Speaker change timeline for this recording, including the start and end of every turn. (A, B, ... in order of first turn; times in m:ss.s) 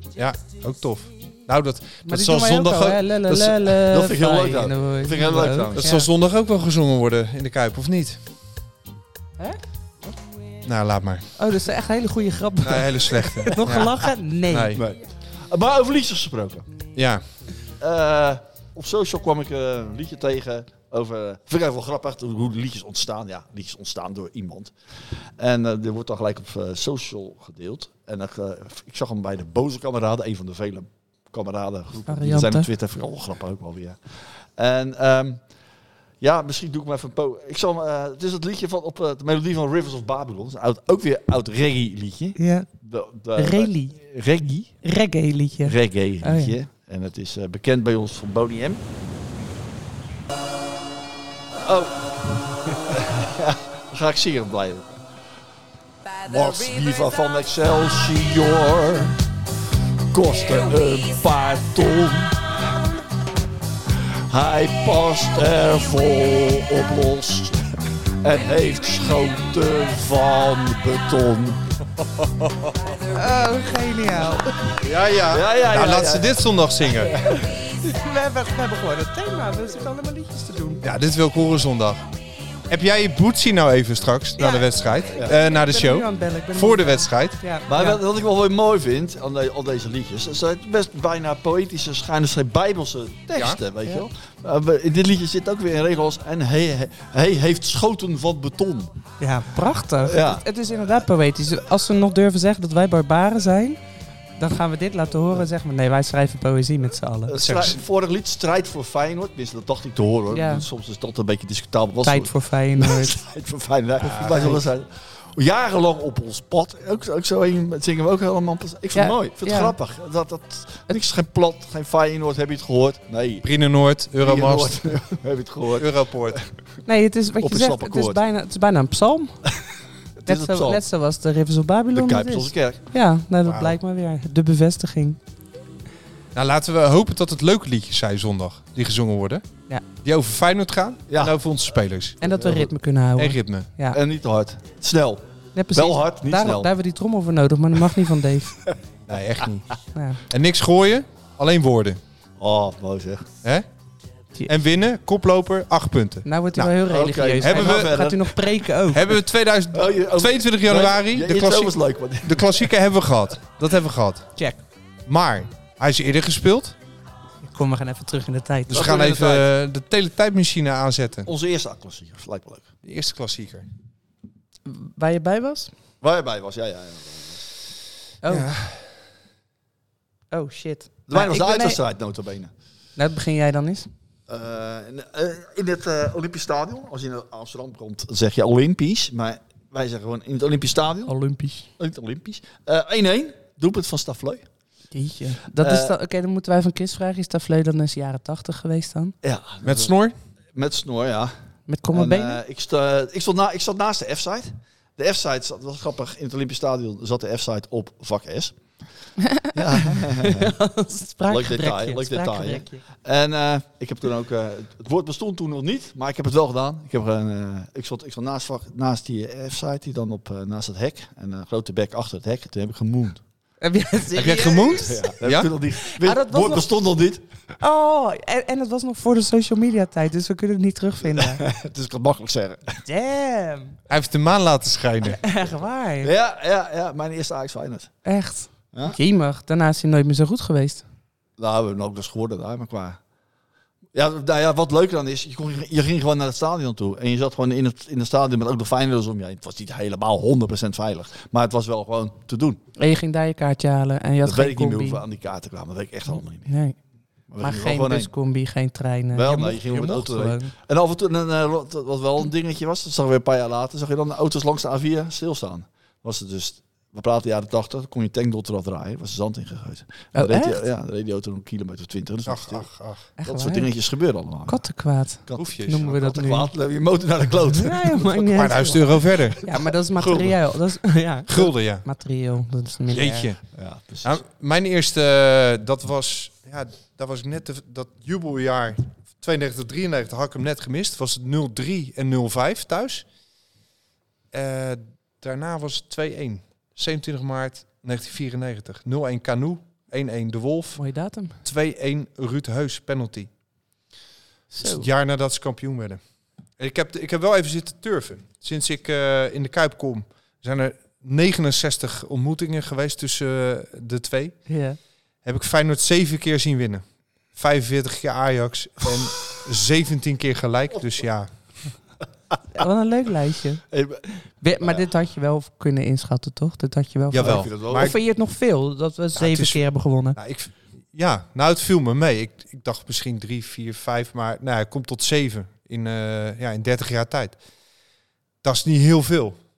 0:00.2-0:03.1 A
0:02.0-0:06.1 B
0:03.3-0:05.9 C
0:05.8-0:08.2 A
0:10.6-0:11.3 A
0:11.4-0:14.8 B
0:12.6-0:14.8 A
0:14.8-0:16.6 C
0:17.0-0:17.2 A
0:17.8-0:35.4 C
0:32.1-0:32.7 B
0:36.2-0:44.8 C
0:42.4-0:42.7 B
0:43.4-0:44.0 B
0:44.8-0:46.6 B
0:45.6-0:48.8 C
0:51.6-0:54.9 C
0:56.2-0:59.2 C
1:00.1-1:02.5 C
1:04.3-1:07.7 C
1:08.2-1:11.6 C
1:13.2-1:14.5 B
1:14.8-1:17.1 A
1:15.3-1:17.4 C
1:17.3-1:20.8 B
1:20.8-1:22.0 A
1:22.7-1:27.4 A
1:24.4-1:24.7 B
1:25.4-1:28.0 B
1:27.7-1:38.9 C
1:39.2-1:43.8 B
1:40.0-1:40.4 C
1:44.4-1:47.8 B
1:47.3-2:03.5 C
1:50.3-1:50.6 B
1:52.0-1:53.2 B
1:54.0-1:54.6 A
1:54.3-1:54.6 B
1:59.0-1:59.8 B
2:03.4-2:04.9 A
2:04.2-2:06.5 C
2:05.8-2:06.4 A
2:06.9-2:09.4 B
2:07.4-2:08.2 C
2:10.2-2:10.8 C
2:10.3-2:15.2 B
2:11.9-2:12.9 C
2:13.4-2:13.8 A
2:16.3-2:19.4 A
2:20.0-2:22.2 A
2:21.1-2:21.4 C
2:22.2-2:24.0 B
2:22.2-2:22.7 C
2:23.2-2:23.7 A
2:23.9-2:25.2 C
2:25.6-2:28.6 B
2:25.8-2:26.7 C
2:29.1-2:29.7 A
2:29.9-2:30.2 B
2:30.3-2:32.0 A
2:32.4-2:33.3 C
2:34.5-2:36.7 A
2:36.2-2:39.0 B
2:36.9-2:38.4 C
2:37.4-2:38.0 A
2:38.9-2:44.3 A
2:39.7-2:42.7 C
2:45.1-2:46.8 A
2:47.4-2:48.8 B
2:48.7-2:51.3 A
2:48.7-2:49.5 C
2:51.3-2:52.7 C
2:52.8-2:53.7 A
2:54.7-2:55.7 B
2:56.0-2:57.4 C
2:58.2-2:58.5 B
2:58.3-2:58.8 A
3:00.3-3:01.8 B
3:01.1-3:02.5 C
3:03.0-3:03.9 B
3:04.3-3:11.1 C
3:11.1-3:11.7 B
3:11.8-3:14.5 C
3:14.9-3:19.1 B
3:15.6-3:15.9 C
3:19.2-3:19.9 C
3:19.6-3:20.2 A
3:20.6-3:21.3 C
3:21.7-3:22.4 B
3:21.9-3:28.6 C
3:29.3-3:32.8 B
3:29.5-3:30.5 C
3:31.3-3:43.2 C
3:43.6-3:45.0 B
3:44.2-3:45.5 A
3:44.4-3:47.2 C
3:45.8-3:46.6 B
3:47.6-3:51.4 B
3:51.0-3:52.8 C
3:52.8-3:53.8 B
3:53.9-3:55.2 A
3:55.1-3:56.1 B
3:56.0-3:58.0 C
3:58.0-4:00.8 B
3:58.7-3:59.0 C
4:01.4-4:03.0 C
4:03.9-4:12.6 C
4:12.8-4:15.0 B
4:14.2-4:16.5 C
4:16.1-4:16.8 B
4:17.3-4:18.1 C
4:17.4-4:20.5 B
4:19.1-4:32.7 C
4:30.1-4:30.6 B
4:32.3-4:33.1 A
4:33.2-4:33.7 B
4:33.2-4:34.6 C
4:34.5-4:36.5 B
4:35.2-4:39.5 C
4:35.4-4:35.8 A
4:37.6-4:38.8 B
4:38.4-4:39.4 A
4:39.4-4:43.3 B
4:40.0-4:40.4 C
4:41.3-4:41.8 A
4:42.9-4:43.4 A
4:43.5-4:44.2 C
4:44.0-4:53.1 A
4:54.3-5:00.8 A
5:00.8-5:01.4 B
5:01.4-5:03.3 A
5:04.5-5:04.9 B
5:04.6-5:06.0 A
5:06.6-5:14.5 A
5:14.5-5:14.8 B
5:15.2-5:21.3 A
5:22.5-5:23.6 B
5:23.7-5:24.0 C
5:24.4-5:30.2 B
5:24.6-5:24.9 C
5:27.1-5:28.0 A
5:27.2-5:28.0 C
5:29.2-5:37.4 A
5:38.4-5:39.4 A